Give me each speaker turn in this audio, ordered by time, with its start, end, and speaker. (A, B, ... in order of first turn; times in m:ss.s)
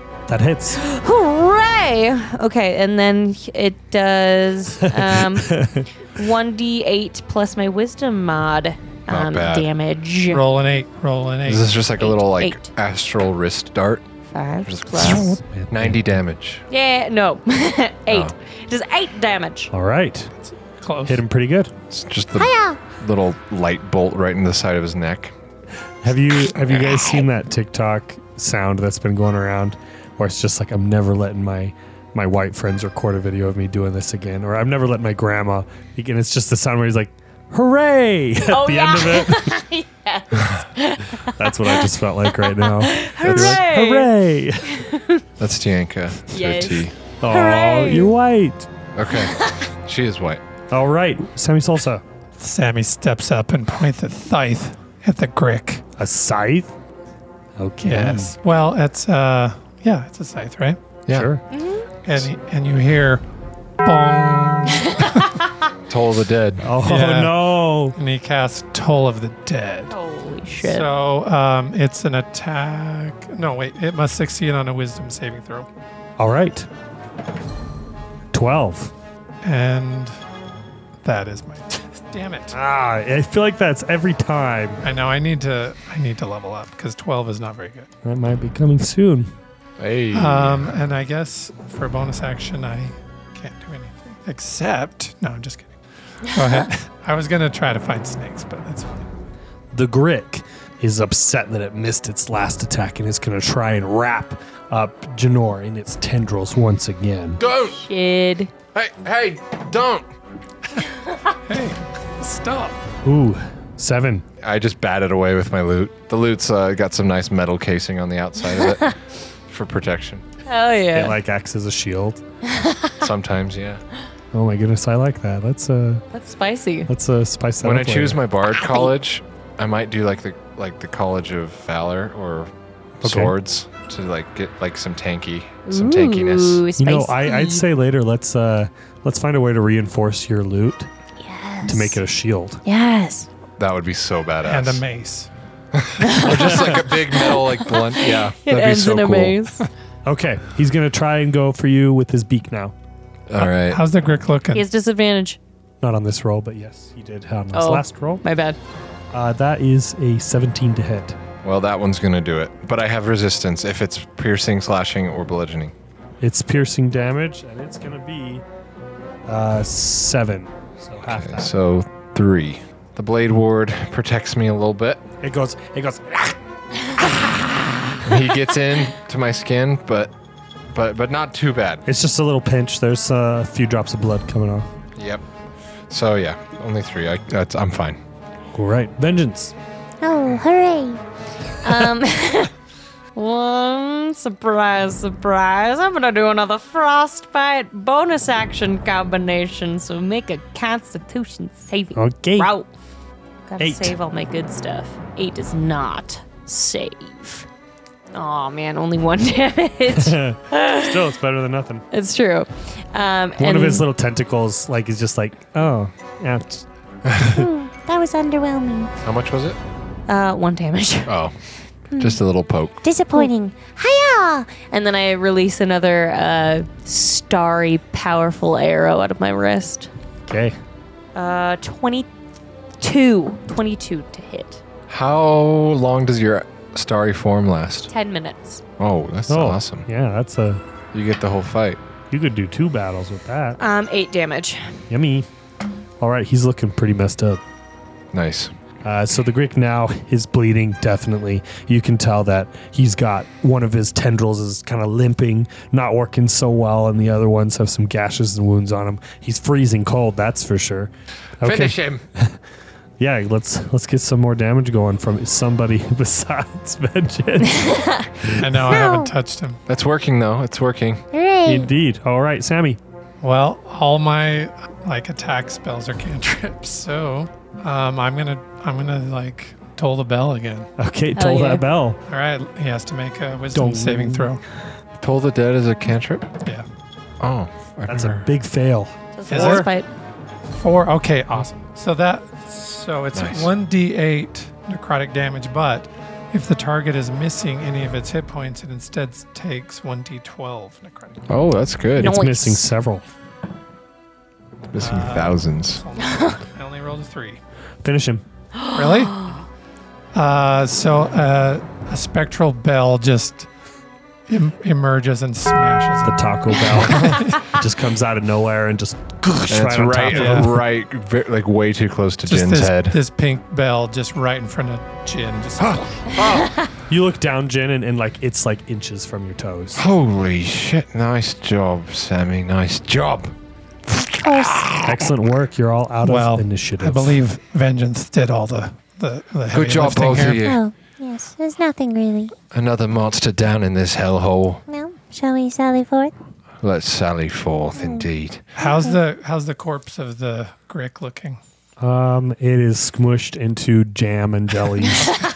0:00.3-0:00.8 A
0:00.7-0:10.4 B
0:05.0-0:05.9 A
0:09.1-0:09.7 C
0:10.3-0:11.7 D
0:11.4-0:14.0 C
0:12.0-0:12.7 B
0:14.3-0:15.4 B
0:14.6-0:16.6 C
0:15.0-0:16.0 A
0:16.7-0:19.7 B
0:18.1-0:18.3 C
0:19.7-0:20.3 A
0:20.8-0:21.2 D
0:21.1-0:21.7 A
0:21.9-0:25.3 C
0:22.4-0:22.8 E
0:26.0-0:39.6 A
0:38.4-0:44.1 B
0:41.2-0:44.8 A
0:43.2-0:43.6 C
0:44.7-0:45.2 B
0:45.4-0:47.0 C
0:46.3-0:48.1 B
0:47.2-0:48.7 A
0:49.0-0:50.4 C
0:49.2-0:49.6 B
0:50.7-0:52.0 A
0:52.4-0:55.8 D
0:56.0-0:56.7 A
0:57.6-0:58.3 A
0:57.8-1:00.8 D
1:01.1-1:01.4 A
1:01.5-1:01.9 B
1:02.0-1:03.2 D
1:03.8-1:05.4 D
1:05.9-1:06.7 C
1:06.6-1:08.0 A
1:06.8-1:07.4 D
1:07.9-1:09.9 D
1:09.9-1:10.9 B
1:10.6-1:15.7 D
1:16.2-1:16.7 A
1:18.3-1:18.9 A
1:19.4-1:20.2 D
1:21.0-1:22.6 D
1:22.5-1:24.8 A
1:24.8-1:27.9 D
1:28.0-1:29.3 A
1:29.8-1:30.7 C
1:30.1-1:39.1 D
1:39.7-1:47.4 A
1:47.4-1:47.8 C
1:47.6-1:48.5 B
1:48.7-1:50.1 C
1:51.5-1:52.8 D
1:53.0-1:54.2 A
1:54.4-1:59.0 C
1:59.5-2:00.2 C
2:00.5-2:01.2 B
2:00.9-2:02.2 A
2:02.5-2:02.9 B
2:03.0-2:03.8 C
2:04.3-2:06.1 A
2:06.1-2:06.9 B
2:06.9-2:08.2 A
2:07.6-2:16.6 C
2:08.6-2:08.9 B
2:13.0-2:13.3 A
2:15.7-2:17.7 B
2:16.8-2:20.9 A
2:21.2-2:22.0 E
2:21.7-2:22.6 A
2:22.6-2:23.3 B
2:23.6-2:24.8 C
2:24.4-2:25.3 D
2:25.7-2:29.4 C
2:26.0-2:29.6 B
2:26.3-2:26.8 A
2:30.0-2:32.7 A
2:33.3-2:33.8 C
2:33.4-2:34.7 D
2:34.5-2:35.4 B
2:35.8-2:38.2 A
2:37.5-2:38.6 B
2:39.1-2:41.2 A
2:41.4-2:45.7 C
2:46.2-2:48.4 A
2:49.3-2:51.5 A
2:51.0-2:55.0 C
2:55.2-2:56.4 A
2:57.0-2:57.3 A
2:58.0-3:00.1 C
3:00.7-3:01.8 C
3:01.9-3:04.7 A
3:05.0-3:05.2 C
3:05.9-3:08.0 C
3:08.5-3:09.5 A
3:10.0-3:11.0 E
3:11.6-3:12.5 B
3:13.2-3:22.7 B
3:22.0-3:22.5 A
3:23.5-3:27.5 B
3:23.6-3:23.9 A
3:28.1-3:31.0 B
3:30.0-3:31.8 A
3:31.9-3:33.9 B
3:33.4-3:36.6 A
3:37.0-3:37.4 C
3:37.2-3:38.9 E
3:37.2-3:37.5 A
3:39.0-3:39.6 C
3:40.1-3:41.1 B
3:41.1-3:41.4 C
3:41.9-3:42.2 E
3:42.0-3:42.8 C
3:42.8-3:44.5 E
3:44.6-3:49.9 B
3:50.3-3:50.6 A
3:51.2-3:52.1 B
3:52.8-3:54.6 B
3:54.9-3:57.9 C
3:57.9-3:58.6 B
3:58.8-3:59.9 C
3:59.3-4:00.6 A
4:00.9-4:01.8 C
4:02.1-4:03.6 A
4:03.6-4:04.7 B
4:04.9-4:05.3 A
4:06.0-4:07.4 A
4:08.1-4:08.5 C
4:08.8-4:22.4 A
4:21.4-4:22.0 C
4:23.0-4:28.4 A
4:28.4-4:29.6 D
4:28.7-4:29.1 E
4:29.7-4:31.0 C
4:31.1-4:31.7 E
4:31.4-4:32.8 A
4:33.2-4:40.7 D
4:40.8-4:42.0 A
4:41.2-4:41.6 B
4:42.1-4:44.4 D
4:43.5-4:44.3 A
4:45.0-4:46.3 C
4:47.2-4:48.2 C
4:47.9-4:49.7 A
4:49.2-4:49.9 B
4:49.3-4:49.7 D
4:50.5-5:01.2 D
4:53.1-4:53.5 C
5:01.3-5:02.2 C
5:02.0-5:02.7 B
5:02.0-5:03.1 A
5:04.7-5:05.8 C
5:04.8-5:07.4 D
5:06.0-5:06.4 B
5:07.8-5:08.2 A
5:08.6-5:09.4 B
5:08.7-5:09.3 D
5:10.1-5:13.5 D
5:14.3-5:17.5 D
5:16.0-5:20.6 A
5:19.5-5:23.0 C
5:20.1-5:20.5 D
5:22.3-5:26.2 D
5:25.6-5:26.6 C
5:26.9-5:29.8 A
5:29.8-5:33.4 C
5:33.9-5:35.1 C
5:33.9-5:34.8 E
5:34.8-5:37.2 A
5:36.0-5:40.4 D
5:39.5-5:40.6 C
5:40.4-5:42.3 E
5:42.5-5:44.6 C
5:44.7-5:46.1 E
5:46.6-5:48.5 C
5:47.8-5:48.1 E
5:48.6-5:51.4 D
5:51.8-5:55.1 A